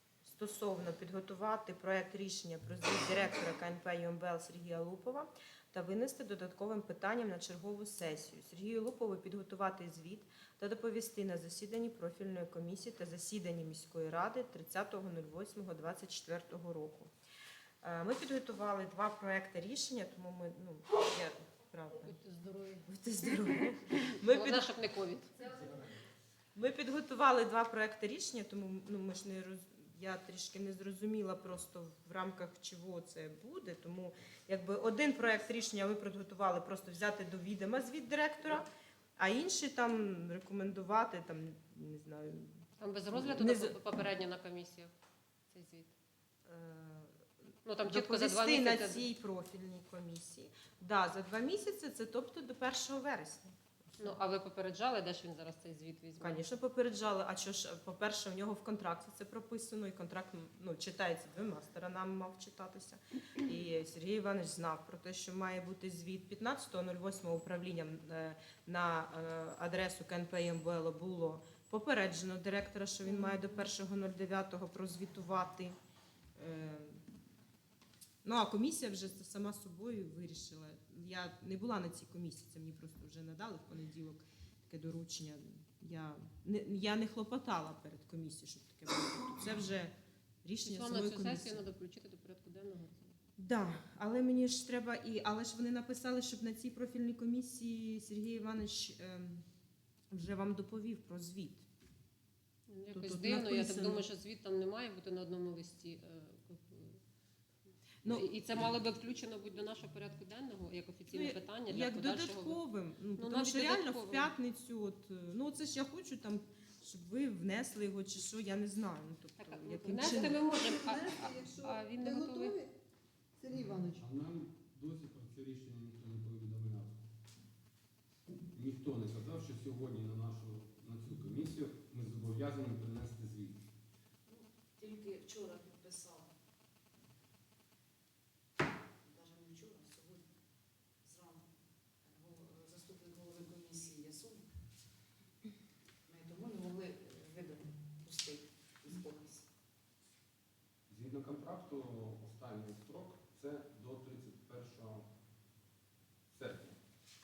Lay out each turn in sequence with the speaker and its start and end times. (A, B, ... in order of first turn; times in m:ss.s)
0:00.2-0:17.1 A
0:17.8-0:22.2 A
0:21.9-0:23.4 B
0:22.9-0:24.7 A
0:24.2-0:25.5 B
0:26.5-0:43.8 A
0:42.8-0:44.9 B
0:45.5-0:45.9 B
0:46.4-0:47.3 A
0:47.6-0:49.0 B
0:47.8-0:54.2 A
0:54.0-0:56.4 B
0:56.2-1:15.8 A
1:16.4-1:17.0 A
1:18.2-1:31.6 A
1:30.6-1:33.2 B
1:33.4-1:39.4 A
1:40.1-1:41.7 A
1:42.7-1:47.0 B
1:42.9-1:44.0 A
1:48.0-1:48.3 A
1:48.0-1:52.6 B
1:51.1-2:00.4 A
1:53.2-1:54.3 B
1:59.4-2:02.6 B
1:59.8-2:02.7 C
2:03.4-2:04.0 C
2:03.9-2:07.0 D
2:08.5-2:13.6 D
2:14.3-2:16.3 E
2:19.0-2:20.3 E
2:21.0-2:24.5 E
2:26.1-2:29.5 E
2:30.9-2:35.1 D
2:36.3-2:36.8 D